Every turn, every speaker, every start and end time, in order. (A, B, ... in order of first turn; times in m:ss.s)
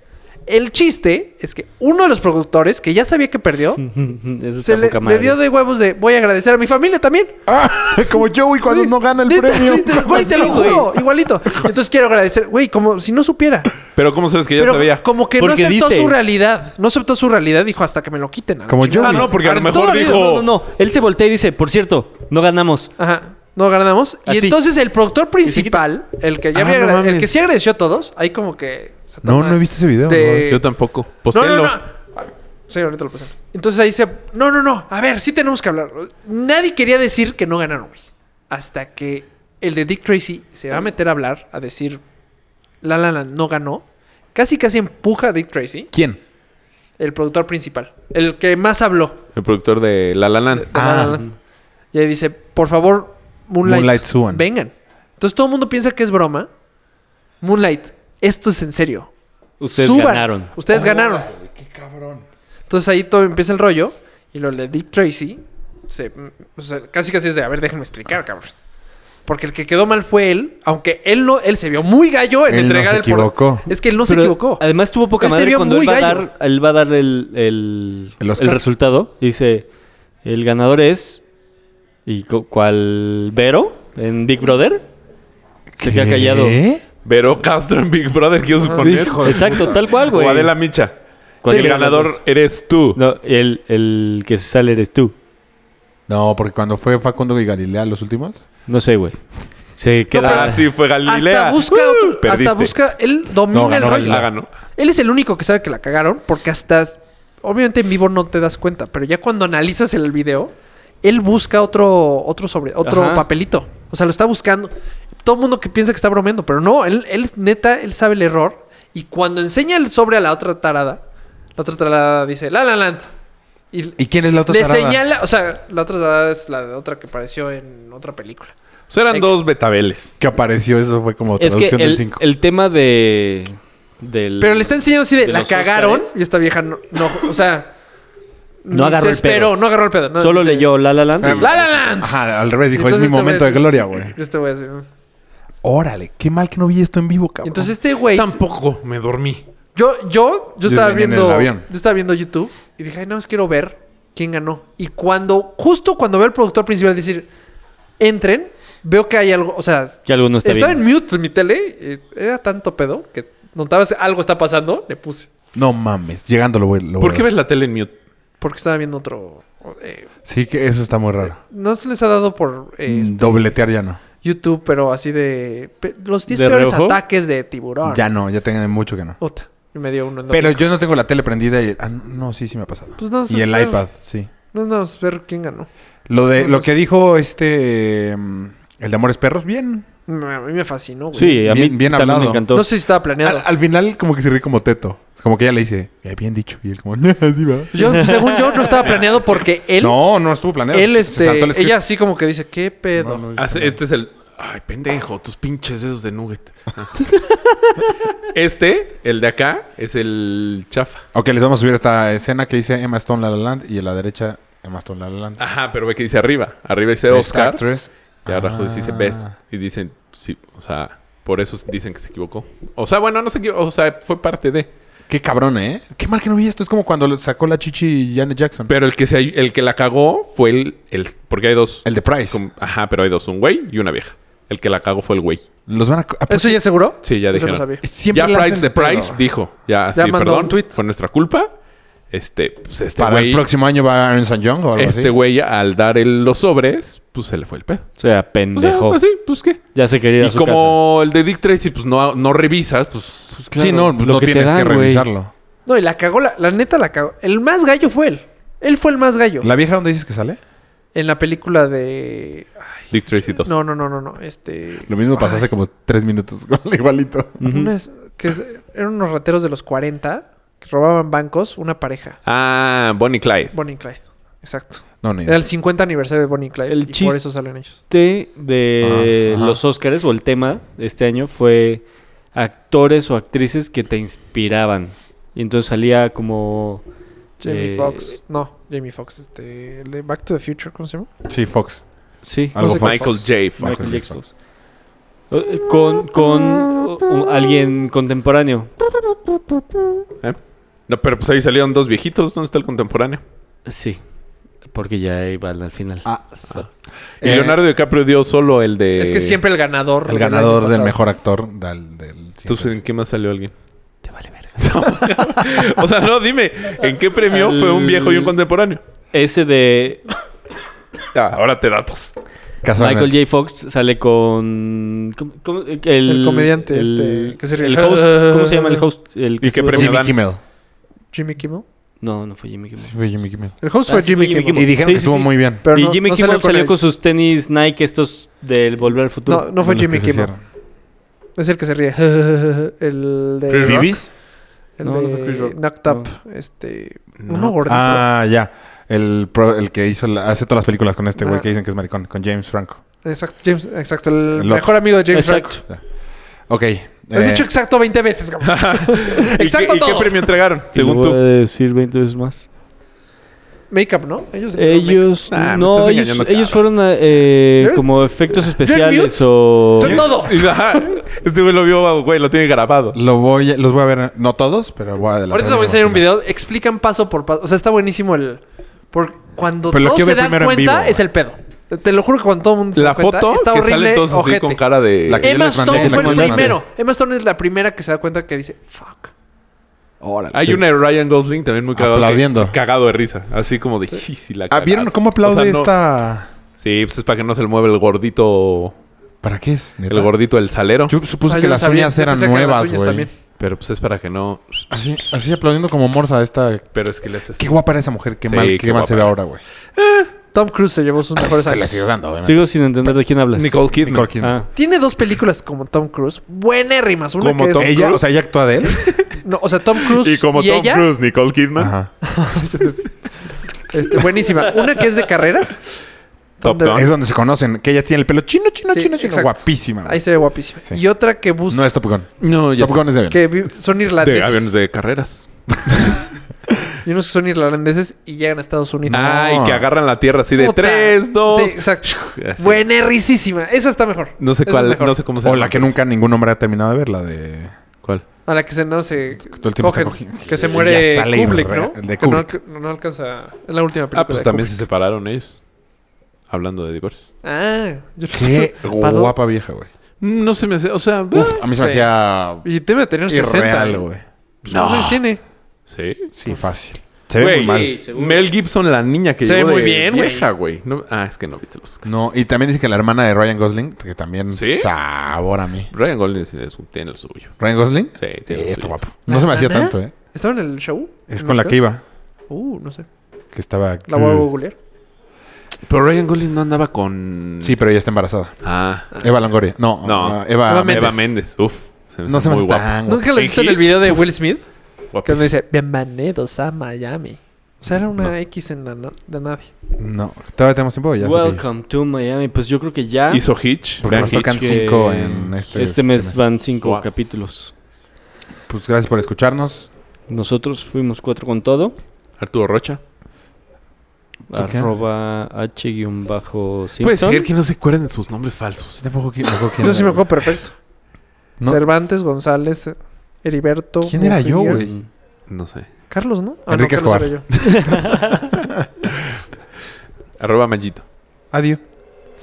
0:00.5-0:03.8 A
0:03.8-0:05.4 B
0:04.6-0:07.4 A
0:07.5-0:10.8 C
0:08.6-0:13.7 A
0:10.2-0:10.9 B
0:13.9-0:15.0 D
0:14.6-0:20.3 A
0:15.4-0:16.2 B
0:18.7-0:19.4 C
0:19.0-0:20.5 D
0:20.0-0:22.9 B
0:23.0-0:30.6 A
0:24.3-0:24.6 B
0:25.4-0:25.8 B
0:26.5-0:27.3 D
0:29.2-0:30.5 C
0:30.5-0:31.8 D
0:31.3-0:42.0 A
0:42.8-0:43.8 A
0:44.3-0:45.9 A
0:45.9-0:46.2 C
0:47.0-0:49.2 A
0:49.4-0:50.7 D
0:50.5-0:51.3 A
0:50.7-0:51.2 C
0:51.9-0:56.5 A
0:53.6-0:54.4 C
0:57.4-0:59.1 A
0:59.6-1:00.5 B
0:59.7-1:01.3 A
1:00.7-1:02.2 C
1:02.7-1:08.5 A
1:09.2-1:14.6 A
1:12.5-1:13.6 C
1:14.0-1:19.6 B
1:15.2-1:16.3 A
1:18.2-1:18.6 C
1:20.2-1:21.2 B
1:22.0-1:24.8 B
1:25.7-1:26.8 C
1:25.8-1:26.6 B
1:27.0-1:33.0 D
1:28.6-1:28.8 A
1:28.8-1:29.8 C
1:29.2-1:30.5 B
1:31.4-1:32.2 B
1:31.4-1:31.7 A
1:33.0-1:35.1 B
1:36.1-1:38.4 C
1:38.7-1:39.2 B
1:39.8-1:40.6 B
1:40.1-1:50.5 A
1:40.1-1:42.8 D
1:43.5-1:44.3 C
1:44.0-1:44.5 D
1:51.0-1:54.7 A
1:52.8-1:53.2 B
1:55.2-2:01.0 A
2:01.6-2:03.1 A
2:03.7-2:08.5 A
2:04.0-2:05.0 C
2:08.9-2:10.1 D
2:09.1-2:09.4 A
2:10.2-2:12.2 C
2:11.4-2:16.1 B
2:14.4-2:17.7 A
2:18.6-2:24.8 A
2:18.7-2:19.6 B
2:20.2-2:21.8 B
2:21.2-2:24.1 C
2:25.6-2:27.7 C
2:27.4-2:28.4 A
2:28.1-2:29.4 D
2:29.7-2:37.3 A
2:30.6-2:31.6 C
2:38.0-2:45.3 A
2:40.1-2:40.8 B
2:45.5-2:47.3 C
2:47.0-2:47.9 D
2:48.4-2:50.1 A
2:50.2-2:51.4 C
2:51.3-2:53.5 A
2:52.8-2:54.0 C
2:54.2-2:58.0 A
2:56.3-2:57.0 B
2:57.8-2:59.2 C
2:59.2-3:00.6 A
3:00.3-3:04.3 C
3:03.0-3:03.9 A
3:04.5-3:05.7 A
3:06.1-3:09.8 C
3:06.4-3:06.7 A
3:10.1-3:11.5 A
3:11.1-3:12.7 B
3:11.4-3:12.5 C
3:12.5-3:13.5 A
3:13.2-3:17.8 C
3:17.7-3:20.0 A
3:17.8-3:18.7 B
3:19.0-3:19.4 D
3:19.8-3:21.8 C
3:20.7-3:23.2 A
3:23.0-3:23.8 C
3:23.4-3:26.9 D
3:27.1-3:27.4 B
3:28.3-3:31.0 D
3:31.1-3:35.4 C
3:35.4-3:37.6 D
3:37.1-3:39.3 C
3:38.2-3:44.7 D
3:45.1-3:48.7 C
3:48.7-3:55.4 D
3:51.8-3:52.4 C
3:55.7-3:56.6 C
3:56.3-3:57.8 A
3:57.0-4:01.5 D
3:57.8-3:59.2 C
3:59.9-4:00.8 A
4:02.1-4:03.4 D
4:03.0-4:05.1 C
4:04.8-4:07.9 D
4:08.0-4:09.0 B
4:08.5-4:09.6 D
4:09.7-4:10.8 B
4:10.2-4:13.4 D
4:13.3-4:15.1 B
4:13.6-4:15.3 C
4:15.6-4:19.5 A
4:19.4-4:20.4 C
4:20.9-4:25.4 A
4:22.9-4:23.5 D
4:24.9-4:27.4 C
4:27.4-4:27.7 B
4:27.4-4:32.2 A
4:32.2-4:33.5 D
4:33.5-4:37.8 A
4:35.0-4:35.4 C
4:36.7-4:37.2 B
4:37.9-4:41.8 B
4:38.8-4:39.6 C
4:42.3-4:46.8 B
4:47.4-4:51.1 A
4:47.4-4:48.1 B
4:51.2-4:51.8 C
4:52.2-4:54.3 B
4:52.5-4:54.2 C
4:52.6-4:53.0 A
4:52.8-4:54.0 D
4:55.3-4:58.9 B
5:00.2-5:03.2 D
5:03.6-5:04.0 B
5:04.7-5:06.0 B
5:06.0-5:06.7 C
5:07.2-5:07.6 C
5:07.2-5:09.4 D
5:09.0-5:11.0 A
5:10.0-5:12.7 C
5:12.4-5:13.5 D
5:14.1-5:14.6 B
5:14.6-5:18.8 D
5:17.3-5:18.3 B
5:19.1-5:20.1 B
5:21.1-5:22.1 D
5:22.6-5:23.2 C
5:22.8-5:30.0 B
5:26.0-5:28.8 A
5:29.4-5:30.2 D
5:29.7-5:30.4 C
5:31.1-5:31.6 A
5:32.0-5:32.9 B
5:32.8-5:33.5 C
5:33.6-5:36.8 A
5:33.9-5:39.5 B
5:34.5-5:35.6 C
5:39.2-5:40.3 A
5:39.6-5:40.4 C
5:41.4-5:44.1 A
5:43.5-5:43.9 D
5:43.6-5:44.1 C
5:44.8-5:48.0 A
5:44.8-5:46.1 B
5:47.2-5:47.6 D
5:47.6-5:52.8 C
5:51.2-5:51.4 A
5:53.0-5:55.6 A
5:54.3-5:54.8 C
5:55.1-5:55.6 B
5:56.5-5:57.4 C
5:57.1-6:00.4 A
5:58.4-6:01.2 D
6:00.7-6:02.4 B
6:03.7-6:05.2 A
6:04.6-6:10.1 B
6:05.3-6:06.6 D
6:07.6-6:10.7 A
6:09.8-6:13.0 D
6:12.9-6:16.0 C
6:15.3-6:18.4 A
6:18.9-6:24.6 A
6:19.7-6:21.0 C
6:22.7-6:25.3 D
6:25.1-6:26.6 C
6:25.2-6:29.1 A
6:25.6-6:26.6 B
6:30.0-6:30.6 C
6:30.3-6:35.7 D
6:31.8-6:32.5 C
6:34.5-6:36.3 C
6:36.6-6:38.7 D
6:39.2-6:40.1 C
6:39.9-6:40.9 D
6:40.9-6:43.1 C
6:41.2-6:43.1 A
6:43.4-6:44.7 D
6:44.7-6:46.7 C
6:46.7-6:47.6 D
6:47.4-6:49.4 C
6:48.2-6:49.2 D
6:49.8-6:50.1 D
6:50.3-6:51.8 A
6:51.2-6:52.9 C
6:52.2-6:53.6 B
6:53.3-6:54.1 D
6:53.8-6:54.4 C
6:54.2-6:54.5 B
6:54.5-6:58.0 A
6:57.2-6:58.0 D
6:57.6-6:58.8 C
6:59.0-7:00.9 A
6:59.9-7:01.7 D
7:01.6-7:01.9 C
7:02.0-7:02.9 A
7:03.7-7:05.6 A
7:06.4-7:06.9 A
7:06.4-7:06.9 D
7:06.7-7:10.0 C
7:08.7-7:11.7 A
7:11.5-7:13.3 C
7:12.2-7:12.9 D
7:13.1-7:14.5 A
7:14.0-7:16.0 D
7:16.8-7:19.2 A
7:18.9-7:19.7 C
7:18.9-7:22.6 D
7:20.3-7:25.0 A
7:24.2-7:25.8 D
7:25.2-7:27.5 C
7:28.2-7:34.5 A
7:29.2-7:32.3 C
7:33.9-7:35.4 D
7:36.3-7:37.1 D
7:37.2-7:39.1 A
7:38.1-7:39.7 C
7:40.0-7:41.5 D
7:41.1-7:42.4 C
7:41.5-7:43.8 A
7:43.1-7:44.0 C
7:44.4-7:45.2 A
7:44.5-7:45.0 D
7:45.7-7:46.1 D
7:46.2-7:47.7 C
7:47.2-7:51.8 D
7:47.4-7:48.2 B
7:49.2-7:50.3 A
7:51.8-7:55.7 C
7:54.3-7:54.7 D
7:55.7-7:57.4 D
7:57.4-7:59.9 C
7:58.0-7:58.8 D
7:59.1-8:01.6 A
8:01.1-8:01.8 C
8:02.3-8:02.8 A
8:03.3-8:04.3 C
8:03.9-8:04.6 A
8:05.6-8:07.6 D
8:07.4-8:08.3 C
8:08.4-8:08.9 D
8:08.9-8:11.1 C
8:09.8-8:14.1 D
8:10.4-8:11.0 A
8:12.0-8:13.2 C
8:12.8-8:14.4 A
8:14.9-8:15.3 D
8:15.0-8:19.5 A
8:17.7-8:18.1 D
8:19.8-8:21.4 C
8:21.0-8:23.3 B
8:23.1-8:24.6 D
8:23.8-8:27.5 B
8:23.8-8:26.3 C
8:26.6-8:26.8 D
8:28.5-8:29.7 C
8:30.1-8:31.8 B
8:32.2-8:32.8 D
8:34.3-8:37.2 B
8:34.3-8:34.7 C
8:36.8-8:38.8 D
8:38.8-8:40.1 C
8:39.6-8:40.5 A
8:41.4-8:44.6 A
8:43.8-8:44.7 C
8:44.5-8:44.8 B
8:45.3-8:45.7 D
8:45.9-8:47.8 A
8:46.5-8:49.2 C
8:47.4-8:48.3 B
8:50.2-8:50.8 D
8:51.3-8:51.6 C